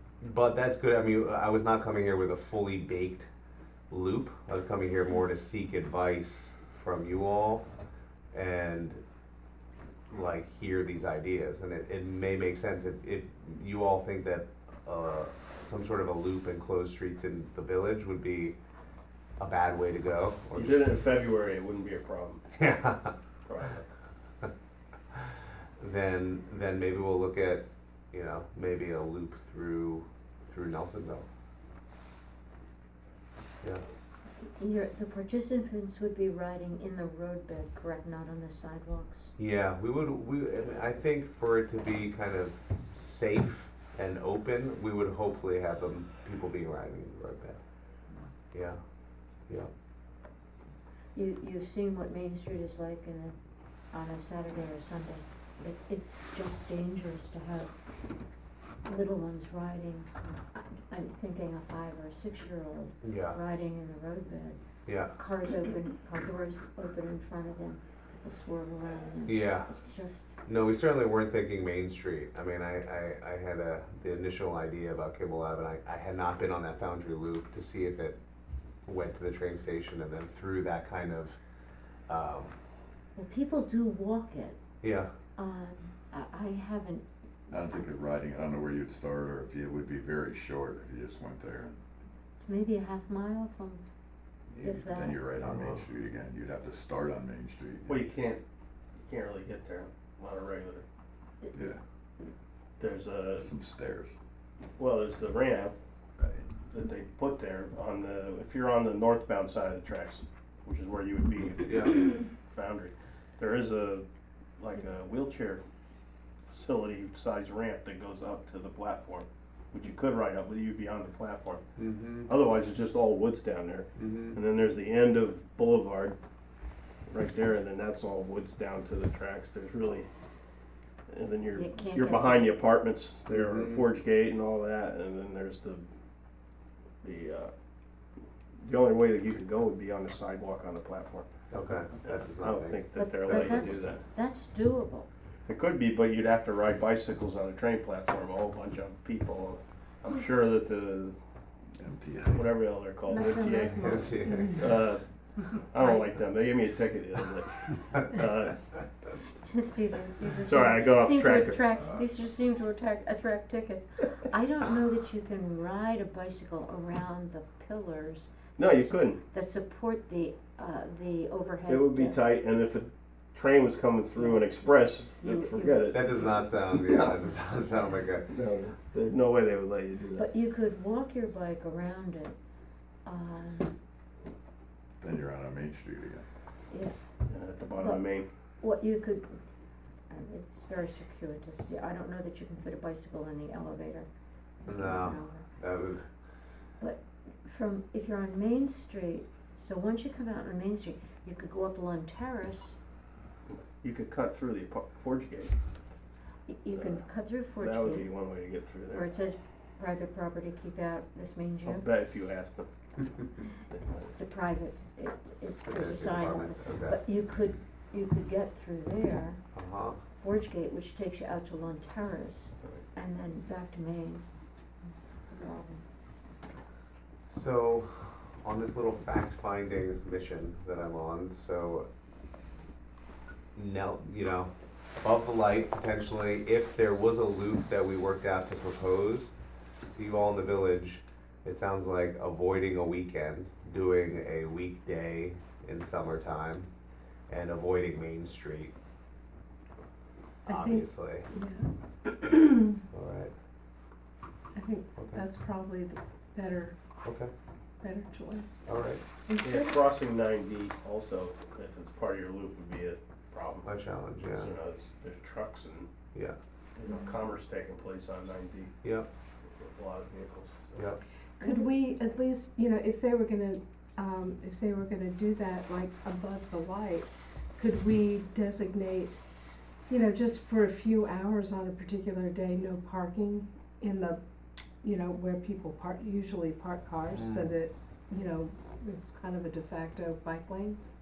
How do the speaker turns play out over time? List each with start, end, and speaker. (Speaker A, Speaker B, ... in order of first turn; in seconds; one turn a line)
Speaker A: 0.2-3.3
Speaker A: 3.9-7.7
Speaker A: 8.3-9.0
Speaker A: 10.1-18.6
Speaker A: 19.4-21.0
Speaker B: 20.5-22.4
Speaker A: 22.6-23.1
Speaker B: 23.4-23.9
Speaker A: 25.8-31.3
Speaker C: 34.5-39.3
Speaker A: 39.4-47.6
Speaker A: 48.5-48.8
Speaker C: 51.1-53.4
Speaker C: 53.9-57.7
Speaker C: 58.9-70.3
Speaker A: 63.0-63.4
Speaker A: 64.9-65.1
Speaker A: 69.3-69.7
Speaker A: 70.5-78.2
Speaker A: 78.9-81.4
Speaker A: 82.1-82.6
Speaker C: 83.2-84.6
Speaker A: 84.8-85.1
Speaker C: 85.4-87.1
Speaker D: 87.5-91.8
Speaker C: 92.4-93.8
Speaker D: 94.5-98.1
Speaker C: 94.6-95.2
Speaker A: 95.4-95.9
Speaker B: 97.9-98.4
Speaker B: 99.0-100.8
Speaker C: 101.4-101.8
Speaker D: 101.5-101.8
Speaker B: 102.8-103.5
Speaker D: 103.4-104.2
Speaker B: 104.8-105.8
Speaker D: 106.2-106.5
Speaker B: 106.7-114.0
Speaker A: 111.6-112.0
Speaker B: 114.6-115.6
Speaker B: 116.5-121.6
Speaker A: 121.8-122.3
Speaker B: 122.3-126.2
Speaker A: 124.0-124.4
Speaker B: 127.1-130.1
Speaker B: 131.1-135.9
Speaker C: 131.5-132.6
Speaker A: 133.3-133.9
Speaker B: 137.0-137.5
Speaker B: 138.6-141.3
Speaker A: 141.5-143.8
Speaker B: 142.0-144.0
Speaker C: 142.9-145.1
Speaker B: 145.5-151.2
Speaker D: 151.8-152.6
Speaker B: 152.3-155.0
Speaker E: 153.1-154.7
Speaker A: 153.6-154.6
Speaker B: 155.7-158.6
Speaker C: 155.8-156.1
Speaker C: 159.4-172.2
Speaker B: 160.4-161.6
Speaker B: 168.6-169.2
Speaker B: 171.7-176.2
Speaker C: 174.2-174.4
Speaker C: 175.2-175.9
Speaker A: 175.9-178.3
Speaker B: 176.7-177.2
Speaker B: 178.3-180.3
Speaker C: 180.1-182.4
Speaker C: 183.1-183.7
Speaker D: 185.0-186.2
Speaker C: 186.7-186.9
Speaker B: 187.3-188.3
Speaker C: 187.8-188.0
Speaker C: 188.6-189.4
Speaker C: 190.1-194.1
Speaker C: 194.6-195.5
Speaker A: 194.7-196.0
Speaker C: 196.8-202.8
Speaker B: 203.5-205.5
Speaker C: 206.5-208.1
Speaker B: 206.7-207.0
Speaker B: 207.6-209.1
Speaker C: 208.9-211.9
Speaker B: 211.7-212.7
Speaker C: 214.1-219.4
Speaker A: 215.7-217.0
Speaker A: 219.5-220.0
Speaker C: 220.2-224.2
Speaker C: 225.2-225.8
Speaker A: 227.3-231.9
Speaker A: 233.6-239.3
Speaker A: 239.9-246.7
Speaker A: 247.3-248.7
Speaker E: 250.5-251.7
Speaker A: 250.5-251.3
Speaker A: 252.7-253.3
Speaker E: 254.6-256.8
Speaker A: 255.0-255.3
Speaker A: 257.0-257.3
Speaker E: 257.8-258.6
Speaker A: 258.6-259.0
Speaker E: 259.3-259.8
Speaker B: 259.4-263.8
Speaker A: 263.6-264.5
Speaker B: 264.3-265.9
Speaker B: 266.8-268.7
Speaker A: 268.8-269.1
Speaker B: 269.6-270.9
Speaker E: 271.4-279.2
Speaker E: 279.9-284.2
Speaker E: 284.8-290.8
Speaker A: 287.1-287.6